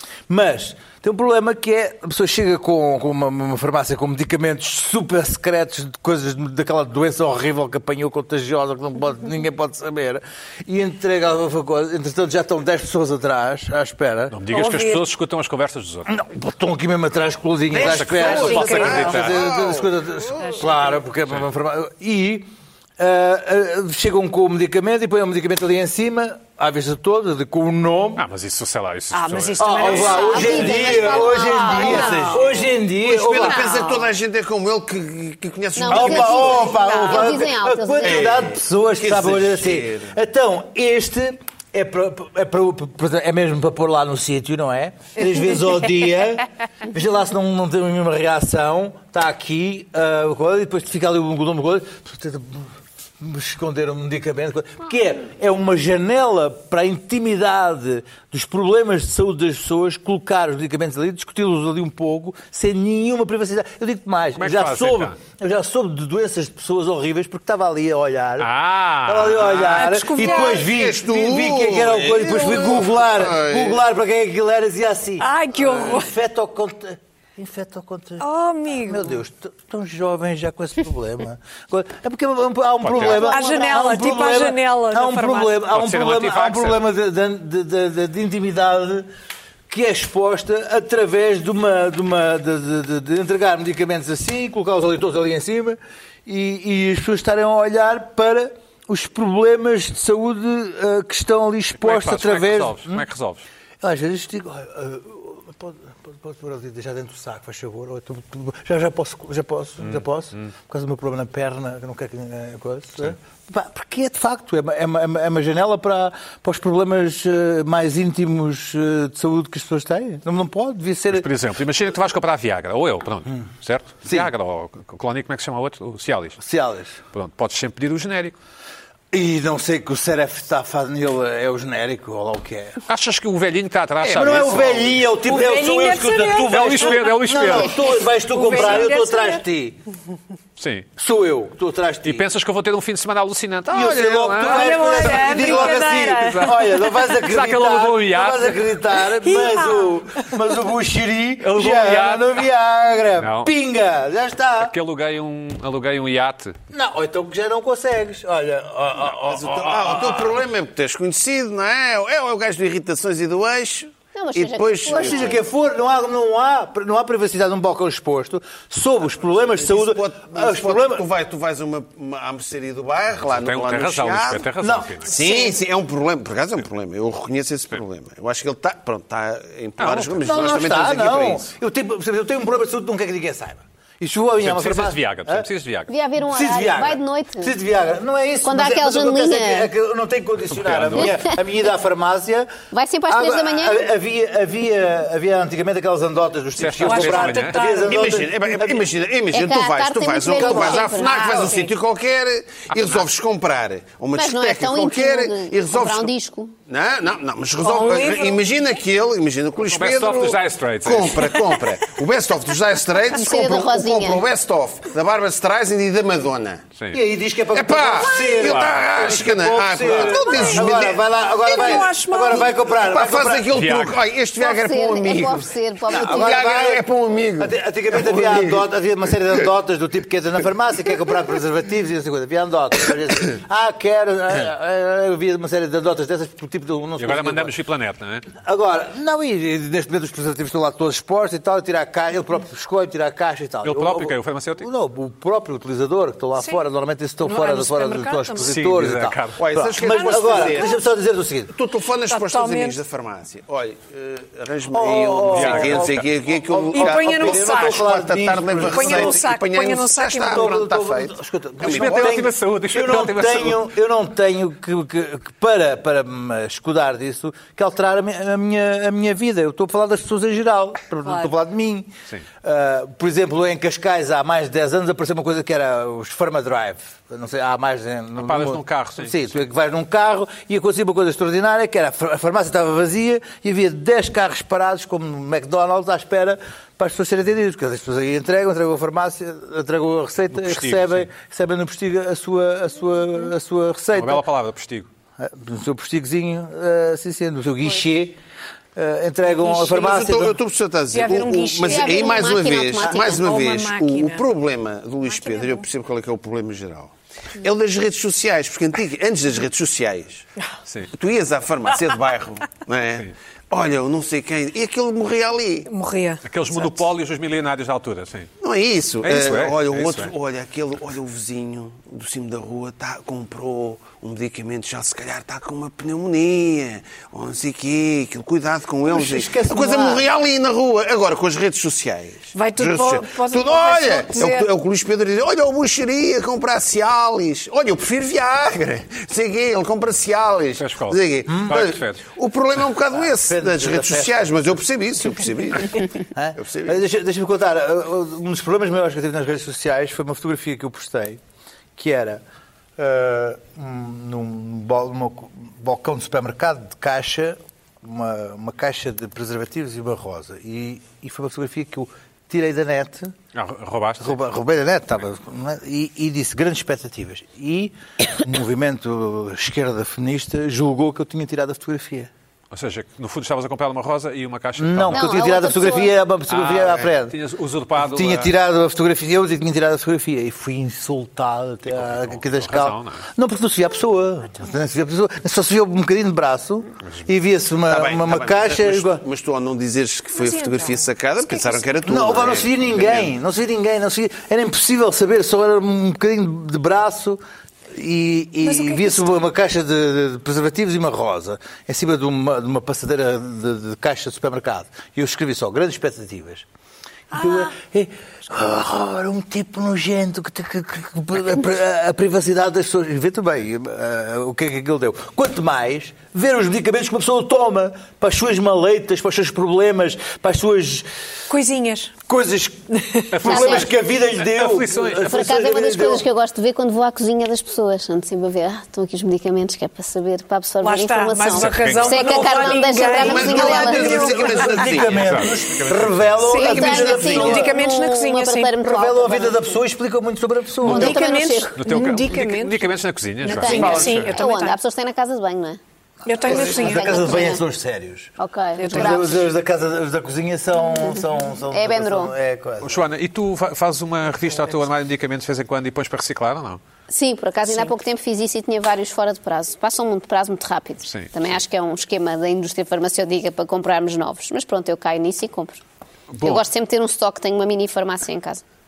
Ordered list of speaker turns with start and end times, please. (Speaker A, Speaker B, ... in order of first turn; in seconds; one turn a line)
Speaker A: 0.3-14.4
Speaker B: 14.3-16.1
Speaker C: 14.5-15.1
Speaker A: 16.1-28.2
Speaker D: 17.7-20.7
Speaker B: 17.7-19.4
Speaker C: 18.1-19.3
Speaker C: 20.4-20.8
Speaker B: 28.2-30.0
Speaker C: 29.1-32.5
Speaker A: 29.6-33.9
Speaker E: 29.9-32.2
Speaker D: 32.4-36.8
Speaker C: 33.4-34.0
Speaker E: 35.8-38.4
Speaker A: 35.9-68.5
Speaker C: 36.8-37.3
Speaker D: 38.0-40.1
Speaker B: 64.4-65.2
Speaker B: 68.4-69.9
Speaker A: 69.0-89.1
Speaker C: 69.7-70.7
Speaker D: 70.2-73.8
Speaker C: 75.2-76.1
Speaker C: 78.2-79.2
Speaker B: 82.8-83.3
Speaker C: 83.1-85.7
Speaker E: 83.2-83.7
Speaker B: 85.7-86.8
Speaker A: 89.7-103.0
Speaker B: 101.8-103.5
Speaker A: 103.8-121.3
Speaker B: 109.8-110.5
Speaker B: 121.1-126.4
Speaker A: 124.0-124.3
Speaker A: 126.4-127.0
Speaker B: 127.1-128.4
Speaker A: 129.1-132.8
Speaker B: 132.9-135.0
Speaker A: 134.0-139.8
Speaker C: 135.3-136.9
Speaker B: 136.5-137.7
Speaker C: 138.3-139.4
Speaker B: 140.6-140.9
Speaker A: 141.0-142.3
Speaker B: 142.0-146.5
Speaker A: 143.7-154.7
Speaker C: 144.4-146.7
Speaker B: 147.0-148.7
Speaker C: 149.2-150.0
Speaker B: 151.4-152.4
Speaker B: 153.2-153.5
Speaker B: 154.6-156.6
Speaker A: 156.7-160.4
Speaker D: 159.2-165.4
Speaker E: 164.1-165.4
Speaker A: 164.9-171.1
Speaker D: 169.4-174.5
Speaker B: 173.2-175.2
Speaker A: 174.6-175.2
Speaker D: 175.0-181.5
Speaker B: 179.8-180.2
Speaker A: 180.2-185.5
Speaker B: 184.4-185.9
Speaker E: 185.9-187.5
Speaker A: 186.2-192.5
Speaker E: 188.4-189.7
Speaker B: 190.5-191.2
Speaker E: 192.7-193.9
Speaker A: 193.1-198.9
Speaker B: 196.6-197.7
Speaker C: 196.8-198.1
Speaker D: 197.8-206.1
Speaker E: 199.3-201.5
Speaker A: 200.3-200.9
Speaker C: 200.5-201.7
Speaker E: 204.2-206.5
Speaker D: 206.7-216.6
Speaker C: 207.6-208.4
Speaker B: 209.6-211.4
Speaker E: 213.2-214.2
Speaker A: 216.9-223.5
Speaker D: 217.5-221.0
Speaker B: 218.4-218.9
Speaker C: 220.0-220.7
Speaker C: 221.4-222.5
Speaker D: 222.7-228.6
Speaker B: 223.5-224.0
Speaker E: 224.4-226.6
Speaker A: 225.9-226.8
Speaker A: 227.4-237.5
Speaker B: 237.0-238.3
Speaker A: 238.4-251.5
Speaker B: 243.6-244.7
Speaker C: 246.4-246.6
Speaker C: 247.2-248.5
Speaker B: 248.4-249.4
Speaker D: 249.4-250.8
Speaker C: 249.9-250.8
Speaker D: 251.5-262.2
Speaker C: 252.1-252.8
Speaker A: 254.7-259.3
Speaker B: 255.3-256.1
Speaker C: 256.7-257.9
Speaker C: 258.7-260.6
Speaker A: 260.2-271.9
Speaker B: 261.6-263.7
Speaker C: 271.1-271.3
Speaker A: 272.4-294.2
Speaker B: 278.2-279.2
Speaker B: 290.3-291.1
Speaker B: 293.9-294.9
Speaker A: 295.2-298.2
Speaker A: 298.8-300.4
Speaker D: 299.5-310.2
Speaker C: 300.9-304.2
Speaker E: 301.7-303.2
Speaker C: 305.1-305.7
Speaker B: 310.7-310.9
Speaker D: 310.9-315.7
Speaker C: 315.7-316.2
Speaker B: 316.2-318.3
Speaker D: 316.6-316.9
Speaker D: 318.4-346.8
Speaker B: 319.0-320.1
Speaker A: 328.9-330.1
Speaker C: 332.3-334.5
Speaker B: 340.6-342.1
Speaker A: 341.3-341.7
Speaker A: 342.9-344.5
Speaker A: 346.1-351.2
Speaker A: 351.8-352.2
Speaker A: 352.8-363.1
Speaker B: 363.3-364.2
Speaker A: 364.0-372.1
Speaker B: 372.5-375.2
Speaker A: 374.6-377.2
Speaker E: 374.9-375.9
Speaker B: 376.3-378.3
Speaker A: 377.8-389.0
Speaker B: 381.7-383.0
Speaker D: 387.7-393.1
Speaker C: 390.1-391.6
Speaker A: 391.8-406.5
Speaker C: 398.4-399.1
Speaker A: 407.1-420.9
Speaker C: 407.1-407.5
Speaker C: 421.3-421.9
Speaker A: 422.1-426.1
Speaker B: 423.1-425.2
Speaker E: 423.2-423.6
Speaker E: 425.1-434.1
Speaker C: 430.6-434.7
Speaker B: 431.3-432.6
Speaker D: 432.9-435.1
Speaker A: 433.1-437.7
Speaker B: 434.8-436.2
Speaker C: 436.2-438.6
Speaker E: 436.4-439.6
Speaker A: 438.6-441.1
Speaker C: 440.6-442.7
Speaker E: 440.6-441.6
Speaker B: 441.6-444.1
Speaker C: 443.2-444.6
Speaker E: 443.3-445.6
Speaker C: 446.1-447.1
Speaker A: 446.2-448.1
Speaker E: 446.3-447.4
Speaker E: 448.2-449.1
Speaker C: 448.6-449.0
Speaker A: 448.7-452.8
Speaker E: 451.5-452.1
Speaker B: 452.6-456.6
Speaker E: 456.9-465.6
Speaker C: 457.5-457.7
Speaker B: 460.9-461.4
Speaker B: 466.1-466.4
Speaker E: 466.2-468.4